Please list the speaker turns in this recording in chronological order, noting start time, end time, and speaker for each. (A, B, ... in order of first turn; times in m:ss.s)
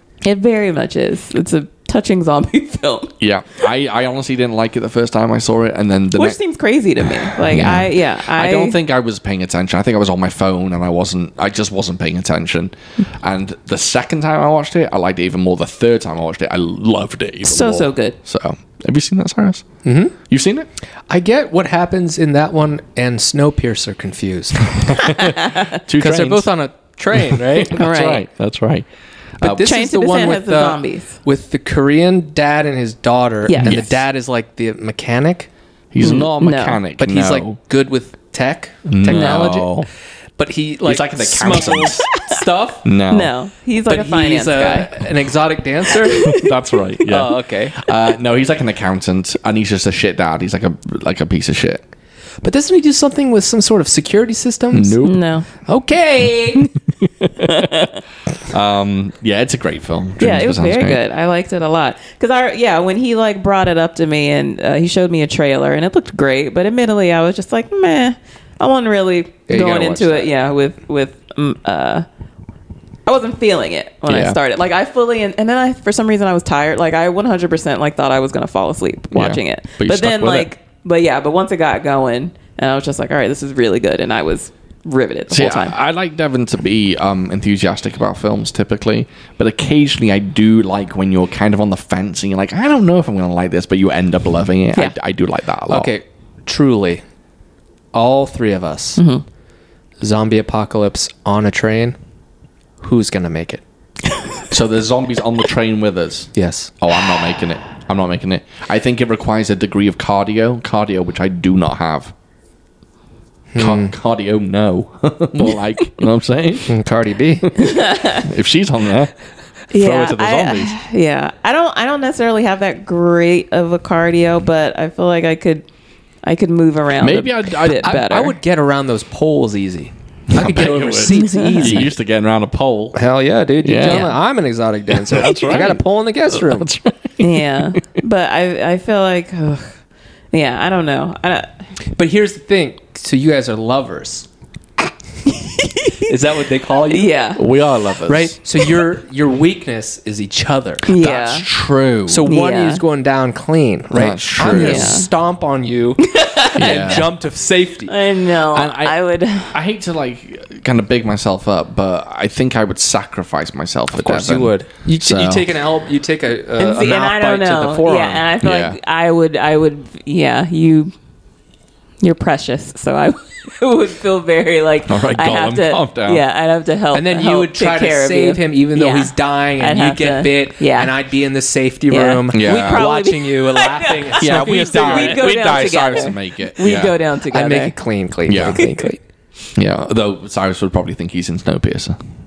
0:00.2-0:03.1 A
0:03.2-0:06.4 B
0:06.1-0:08.8 A
0:07.0-0:19.7 B
0:17.4-0:18.2 A
0:19.8-0:20.1 C
0:20.3-0:20.7 B
0:21.1-0:25.2 C
0:24.7-0:26.5 B
0:26.0-0:27.8 C
0:27.1-0:28.9 B
0:27.8-0:28.2 A
0:29.4-0:35.5 C
0:29.5-0:31.2 A
0:33.5-0:33.9 A
0:33.6-0:33.9 B
0:35.9-0:37.6 B
0:36.0-0:36.8 A
0:37.0-0:39.7 C
0:38.9-0:39.9 B
0:39.1-0:39.5 A
0:40.4-0:42.8 C
0:40.8-0:42.1 B
0:42.1-0:42.4 A
0:42.8-0:43.3 B
0:43.1-0:45.1 A
0:43.9-0:46.4 C
0:45.9-0:46.5 A
0:46.2-0:51.8 B
0:47.1-0:47.8 C
0:52.4-0:55.0 C
0:54.7-0:55.2 B
0:55.0-0:55.5 A
0:55.7-0:56.7 C
0:56.6-1:01.0 B
0:57.4-0:58.0 A
1:00.2-1:12.1 A
1:09.5-1:10.3 C
1:13.1-1:25.8 A
1:14.1-1:14.4 B
1:19.1-1:20.5 B
1:25.3-1:35.9 B
1:35.7-1:37.0 C
1:37.9-1:39.0 C
1:39.0-1:39.2 A
1:40.0-1:42.0 C
1:42.8-1:43.6 C
1:44.5-1:52.1 B
1:46.4-1:46.7 C
1:53.5-1:54.0 C
1:53.6-1:56.7 B
1:56.7-1:57.5 C
1:57.4-1:59.1 B
1:57.6-1:58.3 A
1:59.7-2:05.6 A
1:59.7-2:00.7 B
2:06.2-2:08.3 A
2:07.0-2:08.0 B
2:07.8-2:11.9 C
2:10.3-2:13.0 B
2:11.1-2:11.8 A
2:13.0-2:16.7 C
2:13.6-2:14.1 B
2:13.8-2:14.1 A
2:14.9-2:17.8 B
2:17.2-2:19.7 A
2:20.3-2:21.6 A
2:22.0-2:24.3 C
2:25.3-2:26.1 A
2:26.1-2:27.2 C
2:26.9-2:27.4 A
2:27.4-2:28.4 B
2:28.1-2:30.9 C
2:30.9-2:31.5 A
2:31.0-2:32.3 B
2:32.1-2:37.9 C
2:32.2-2:32.8 A
2:33.9-2:35.0 B
2:34.5-2:35.1 A
2:36.0-2:37.1 A
2:36.6-2:37.1 B
2:37.9-2:39.6 A
2:38.5-2:45.6 B
2:44.0-2:48.2 C
2:46.6-2:50.9 A
2:48.4-2:48.8 B
2:52.0-3:00.9 A
2:54.9-2:56.2 B
2:56.9-3:05.2 C
3:01.9-3:07.8 A
3:02.3-3:02.9 B
3:04.2-3:07.0 B
3:07.3-3:09.0 C
3:08.3-3:08.6 B
3:08.4-3:08.9 A
3:09.6-3:12.0 B